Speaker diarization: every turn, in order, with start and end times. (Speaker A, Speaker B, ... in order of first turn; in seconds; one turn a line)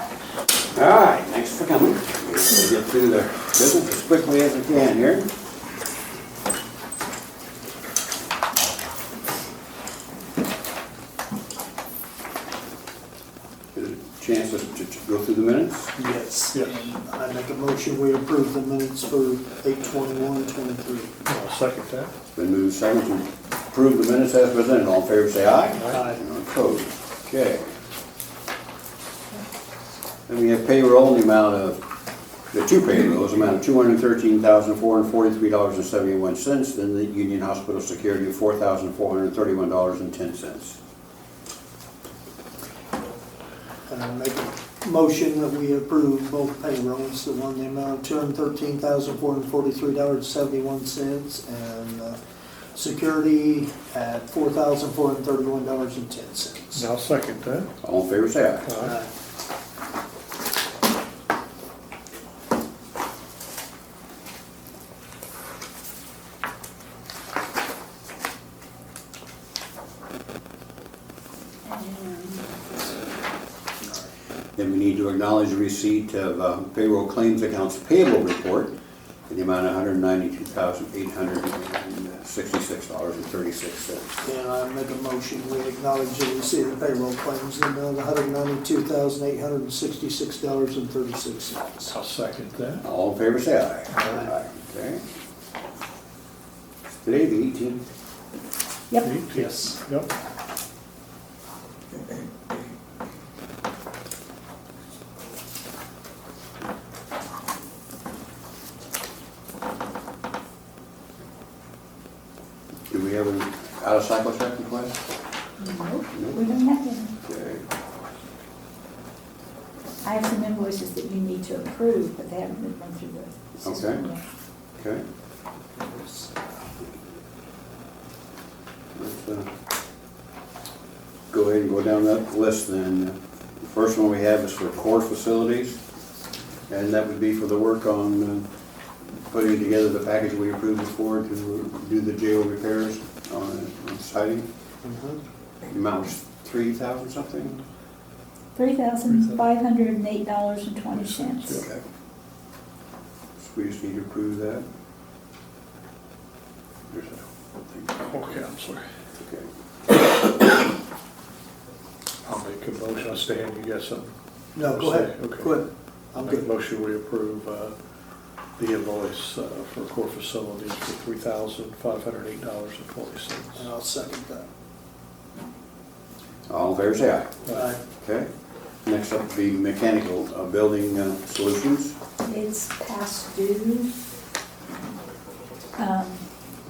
Speaker A: 0.7-5.3
Speaker A: 13.7-15.9
Speaker B: 15.9-21.1
Speaker C: 16.5-16.8
Speaker C: 21.2-22.1
Speaker A: 22.3-27.7
Speaker B: 25.9-26.2
Speaker A: 30.3-31.8
Speaker A: 32.5-40.8
Speaker B: 43.9-52.2
Speaker B: 52.7-56.9
Speaker C: 56.7-57.7
Speaker A: 57.8-58.7
Speaker C: 58.6-59.0
Speaker B: 58.8-59.1
Speaker D: 71.8-72.4
Speaker A: 74.5-78.7
Speaker A: 79.3-84.2
Speaker B: 84.2-92.0
Speaker C: 91.9-92.8
Speaker A: 92.8-95.0
Speaker A: 96.9-97.8
Speaker C: 99.0-100.1
Speaker B: 99.3-99.8
Speaker A: 112.9-115.0
Speaker D: 115.6-117.1
Speaker A: 116.1-116.4
Speaker A: 117.2-117.6
Speaker D: 120.0-124.2
Speaker A: 123.6-124.0
Speaker A: 124.8-125.0
Speaker B: 125.8-126.3
Speaker A: 128.9-129.5
Speaker A: 131.3-135.8
Speaker A: 136.7-138.5
Speaker A: 139.3-144.5
Speaker B: 144.8-145.2
Speaker A: 145.7-147.6
Speaker D: 148.6-151.6
Speaker C: 149.1-149.4
Speaker C: 150.9-151.7
Speaker A: 153.4-154.6
Speaker A: 156.9-157.2
Speaker C: 157.9-158.8
Speaker A: 159.2-159.5
Speaker C: 162.2-165.6
Speaker B: 164.6-166.5
Speaker C: 166.2-167.8
Speaker C: 168.6-173.7
Speaker B: 173.6-174.5
Speaker A: 176.5-177.3
Speaker B: 177.5-177.8
Speaker A: 178.0-178.3
Speaker A: 178.8-181.9
Speaker D: 182.2-183.9
Speaker D: 185.8-186.2